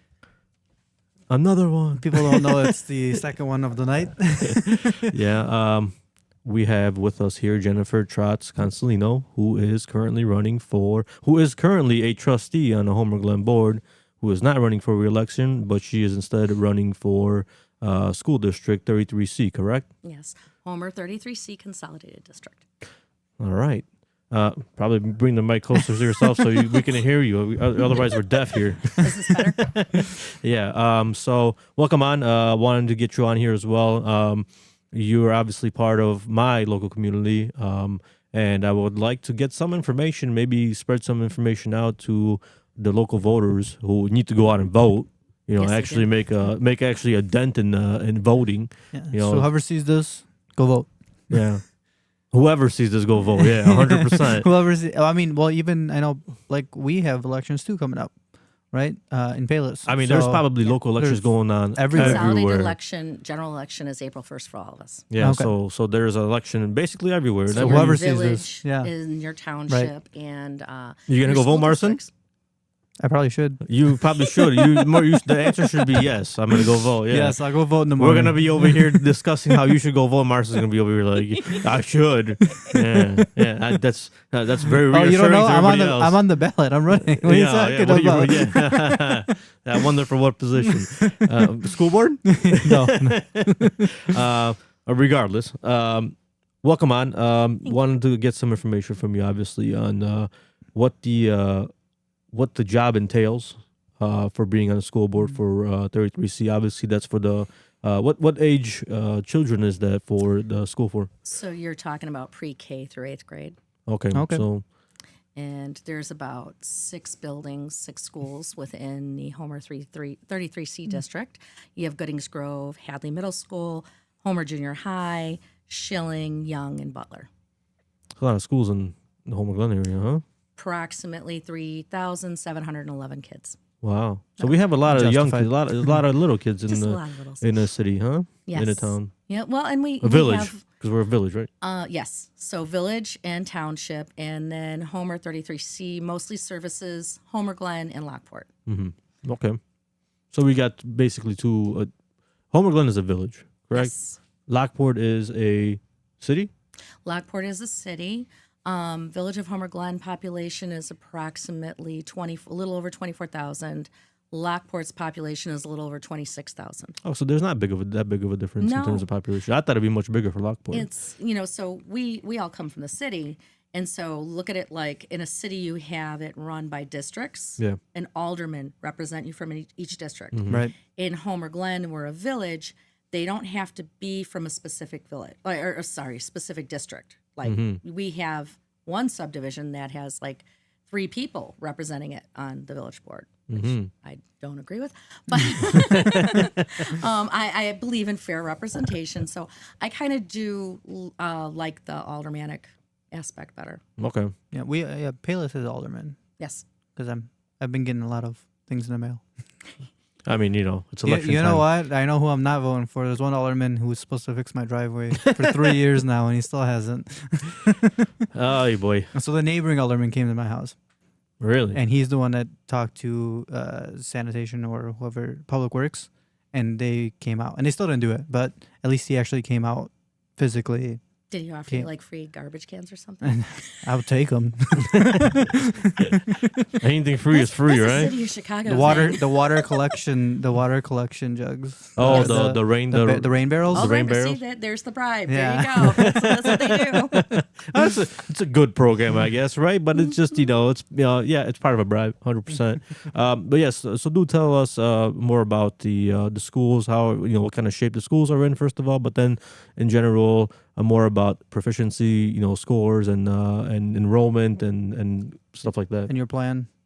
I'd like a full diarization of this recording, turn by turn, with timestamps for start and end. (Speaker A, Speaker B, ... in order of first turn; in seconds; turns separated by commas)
Speaker A: 1.3-2.7, Speaker B: 2.0-5.1, Speaker A: 5.1-19.9, Speaker C: 20.0-22.6, Speaker A: 23.4-49.5, Speaker C: 28.9-29.7, Speaker C: 45.6-46.3, Speaker B: 48.9-51.5, Speaker A: 51.3-51.7, Speaker A: 52.2-54.5, Speaker B: 53.6-62.3, Speaker A: 59.9-62.8, Speaker C: 61.9-65.1, Speaker A: 65.1-68.0, Speaker B: 65.2-65.5, Speaker B: 67.5-68.9, Speaker C: 67.5-72.1, Speaker A: 71.1-72.0, Speaker B: 73.0-73.6, Speaker A: 73.6-86.3, Speaker B: 77.1-79.0, Speaker B: 84.8-89.2, Speaker A: 86.9-101.7, Speaker B: 91.0-91.3, Speaker B: 92.3-94.0, Speaker A: 102.3-111.1, Speaker C: 111.2-113.5, Speaker A: 113.9-114.6, Speaker B: 114.1-114.5, Speaker C: 115.3-127.3, Speaker A: 128.2-130.2, Speaker C: 130.6-133.6, Speaker A: 133.8-139.1, Speaker B: 134.8-136.0, Speaker C: 136.7-137.6, Speaker C: 138.5-140.7, Speaker A: 140.0-141.5, Speaker C: 141.6-148.5, Speaker A: 148.7-149.6, Speaker A: 150.3-151.9, Speaker A: 152.5-153.9, Speaker C: 153.7-154.2, Speaker A: 154.5-156.5, Speaker C: 157.0-167.0, Speaker A: 167.0-170.9, Speaker C: 168.6-169.1, Speaker C: 170.7-203.8, Speaker A: 180.3-180.6, Speaker B: 180.5-180.7, Speaker A: 187.4-187.8, Speaker A: 193.5-193.9, Speaker A: 196.0-196.4, Speaker A: 204.0-204.3, Speaker B: 204.5-206.2, Speaker C: 206.4-206.6, Speaker B: 206.9-209.2, Speaker A: 210.2-211.7, Speaker B: 211.0-217.9, Speaker A: 215.2-215.6, Speaker A: 218.3-219.1, Speaker B: 219.1-220.8, Speaker A: 221.4-221.8, Speaker B: 221.7-231.0, Speaker C: 231.3-233.7, Speaker B: 233.2-236.5, Speaker A: 236.8-238.2, Speaker C: 237.3-239.8, Speaker B: 238.7-243.9, Speaker A: 242.0-244.4, Speaker C: 242.0-242.4, Speaker C: 243.7-247.2, Speaker B: 245.3-246.1, Speaker A: 245.8-266.1, Speaker B: 266.1-266.7